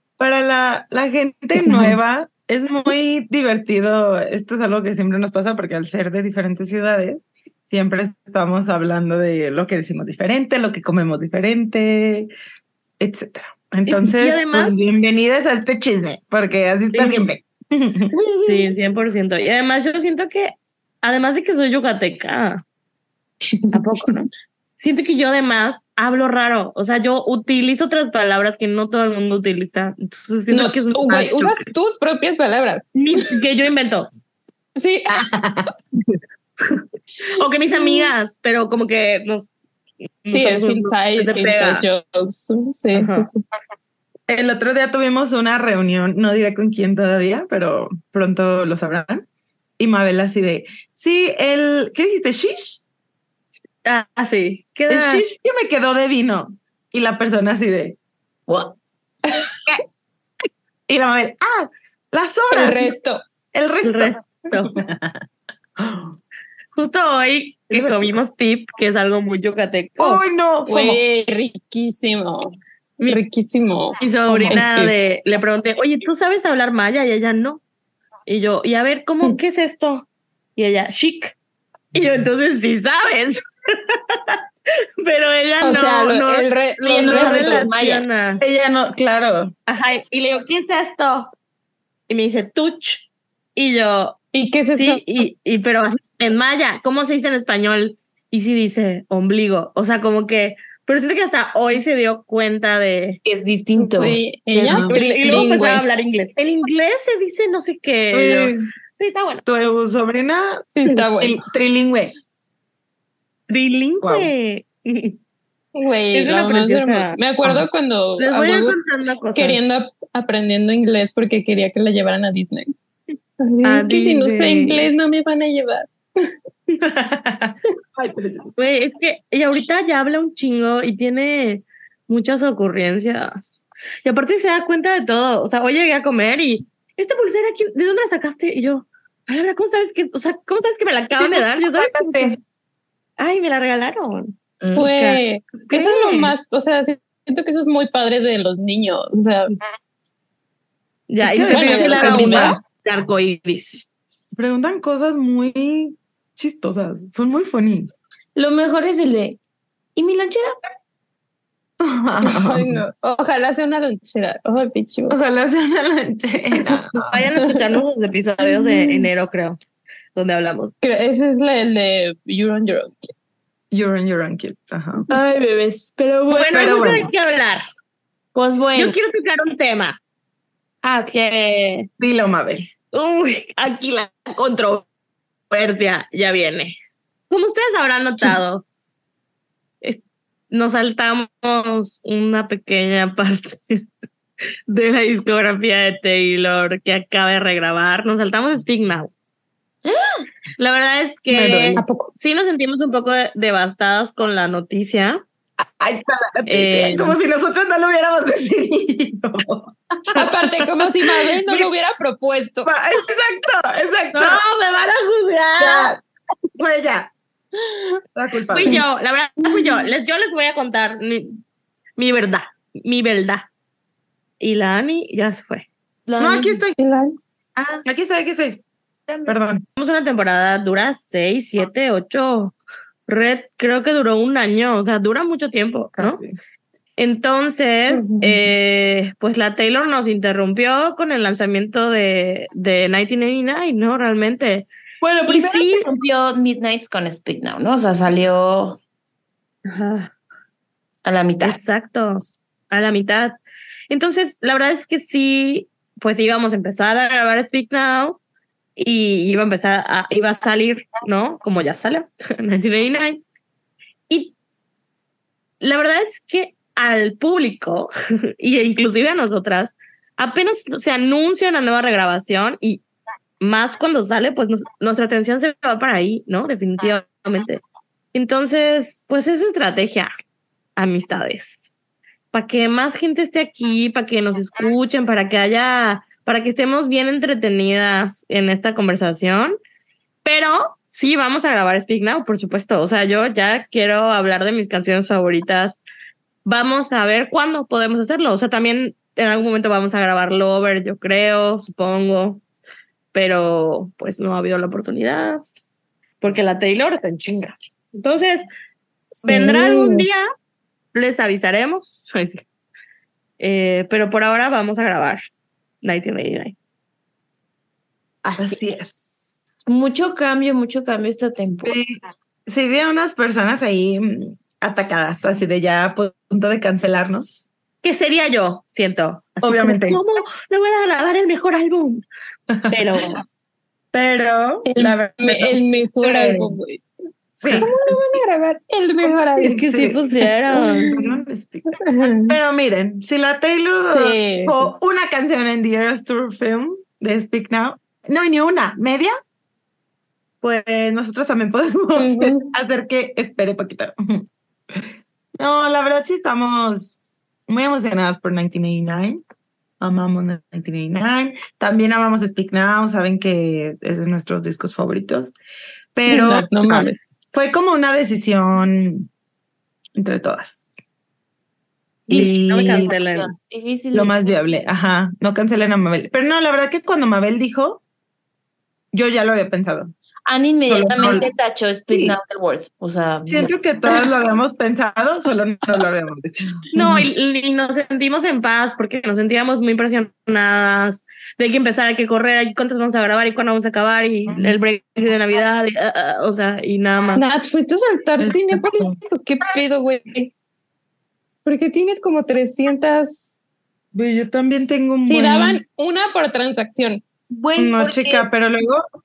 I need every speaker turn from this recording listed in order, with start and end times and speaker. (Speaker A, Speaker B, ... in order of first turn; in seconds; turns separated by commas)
Speaker A: 0.2-12.3, Speaker A: 13.0-18.1, Speaker B: 13.9-14.8, Speaker B: 16.9-17.3, Speaker C: 18.1-18.7, Speaker B: 18.4-22.6, Speaker C: 23.5-23.9, Speaker B: 23.7-24.3, Speaker B: 24.8-31.7, Speaker C: 30.5-33.3, Speaker B: 33.0-34.1, Speaker C: 34.8-35.3, Speaker A: 35.1-35.7, Speaker B: 36.8-39.5, Speaker C: 37.8-38.1, Speaker B: 40.2-41.9, Speaker C: 40.3-43.4, Speaker B: 42.9-43.3, Speaker A: 44.3-49.2, Speaker A: 49.8-52.8, Speaker B: 53.9-55.2, Speaker A: 54.9-58.0, Speaker A: 60.9-62.9, Speaker C: 62.5-63.2, Speaker A: 63.5-65.2, Speaker B: 63.8-64.8, Speaker A: 65.8-66.2, Speaker B: 66.8-70.2, Speaker A: 67.7-68.2, Speaker A: 70.0-71.0, Speaker C: 70.7-74.0, Speaker B: 74.0-77.6, Speaker A: 74.3-74.6, Speaker C: 74.5-74.9, Speaker B: 78.3-81.4, Speaker A: 82.0-82.2, Speaker B: 82.0-84.4, Speaker B: 85.0-88.4, Speaker C: 85.6-87.7, Speaker D: 87.0-88.1, Speaker A: 88.4-89.5, Speaker B: 89.7-91.3, Speaker B: 92.1-94.2, Speaker C: 94.3-95.0, Speaker B: 94.8-103.2, Speaker D: 103.2-104.2, Speaker C: 103.8-105.8, Speaker A: 104.5-105.5, Speaker B: 104.9-109.4, Speaker A: 108.1-108.7, Speaker A: 109.5-112.1, Speaker C: 110.8-111.4, Speaker B: 113.5-115.2, Speaker A: 114.0-114.3, Speaker C: 115.8-118.8, Speaker B: 116.1-117.2, Speaker B: 118.2-119.6, Speaker C: 119.3-122.8, Speaker C: 123.4-125.9, Speaker B: 123.7-124.9, Speaker A: 126.8-128.5, Speaker B: 128.6-142.3, Speaker D: 141.2-142.2, Speaker C: 142.0-142.3, Speaker B: 143.2-145.2, Speaker D: 144.6-144.9, Speaker C: 144.8-149.5, Speaker A: 145.7-146.3, Speaker B: 151.1-153.9, Speaker A: 151.2-152.6, Speaker C: 151.5-152.6, Speaker A: 154.4-157.9, Speaker D: 158.3-159.4, Speaker D: 160.0-160.6, Speaker A: 161.8-162.8, Speaker C: 162.2-165.2, Speaker A: 165.1-167.3, Speaker B: 167.1-169.6, Speaker B: 170.2-170.7, Speaker C: 170.8-173.1, Speaker A: 173.7-175.1, Speaker D: 175.1-176.5, Speaker B: 176.3-177.7, Speaker A: 176.3-177.1, Speaker D: 178.3-179.0, Speaker B: 178.8-180.0, Speaker B: 180.9-181.9, Speaker A: 182.0-182.7, Speaker B: 182.9-184.9, Speaker B: 185.5-186.8, Speaker B: 187.3-188.6, Speaker B: 189.8-193.9, Speaker B: 194.7-199.1, Speaker D: 199.8-200.3, Speaker B: 200.6-205.2, Speaker A: 201.3-201.8, Speaker C: 201.8-202.1, Speaker A: 205.6-211.7, Speaker B: 206.5-207.2, Speaker C: 210.2-212.7, Speaker A: 212.7-214.4, Speaker B: 214.1-215.9, Speaker A: 215.6-216.0, Speaker A: 216.6-217.1, Speaker A: 218.2-218.8, Speaker B: 218.5-221.4, Speaker C: 219.4-219.8, Speaker B: 222.0-223.5, Speaker B: 224.4-225.7, Speaker D: 226.1-226.6, Speaker A: 226.2-226.8, Speaker C: 226.8-227.2, Speaker A: 227.8-228.6, Speaker D: 229.1-229.3, Speaker A: 229.3-229.7, Speaker B: 229.8-232.6, Speaker B: 233.1-236.2, Speaker A: 236.0-236.3, Speaker B: 237.0-244.7, Speaker C: 237.9-238.4, Speaker D: 245.0-248.8, Speaker B: 245.3-245.9, Speaker B: 249.7-250.1, Speaker D: 251.1-251.6, Speaker B: 251.4-253.4, Speaker B: 253.9-258.2, Speaker B: 258.8-263.2, Speaker B: 264.1-264.4, Speaker B: 265.6-272.8, Speaker B: 273.4-277.6, Speaker B: 278.1-280.1, Speaker B: 280.8-281.7, Speaker B: 282.3-289.6, Speaker B: 290.2-295.8, Speaker B: 296.4-302.4, Speaker B: 303.1-305.4, Speaker B: 306.2-308.5, Speaker C: 309.2-310.1, Speaker B: 309.2-310.2, Speaker B: 310.9-312.4, Speaker B: 313.4-315.3, Speaker B: 315.8-316.6, Speaker D: 318.2-321.8, Speaker A: 318.4-318.9, Speaker A: 321.6-322.0, Speaker A: 322.5-327.5, Speaker B: 327.8-332.0, Speaker A: 329.4-330.0, Speaker A: 332.5-332.9, Speaker B: 332.7-333.2, Speaker A: 333.9-336.6, Speaker C: 334.7-336.8, Speaker A: 337.4-337.7, Speaker C: 337.5-339.7, Speaker A: 339.0-349.1, Speaker B: 339.4-341.0, Speaker C: 341.8-342.4, Speaker C: 343.9-344.7, Speaker A: 350.4-359.2, Speaker C: 352.0-352.5, Speaker A: 359.8-365.4, Speaker A: 365.9-369.1, Speaker C: 366.1-367.0, Speaker A: 370.0-370.6, Speaker D: 372.1-374.3, Speaker A: 372.1-372.9, Speaker B: 372.1-373.3, Speaker A: 373.9-377.8, Speaker A: 378.9-379.9, Speaker D: 380.3-384.1, Speaker A: 380.7-381.3, Speaker A: 381.9-382.2, Speaker A: 383.3-387.1, Speaker B: 386.7-397.2, Speaker A: 394.3-394.6, Speaker C: 397.1-400.3, Speaker A: 398.2-399.0, Speaker C: 401.4-403.3, Speaker A: 403.9-405.6, Speaker C: 405.0-407.0, Speaker D: 407.3-408.3, Speaker A: 407.6-408.8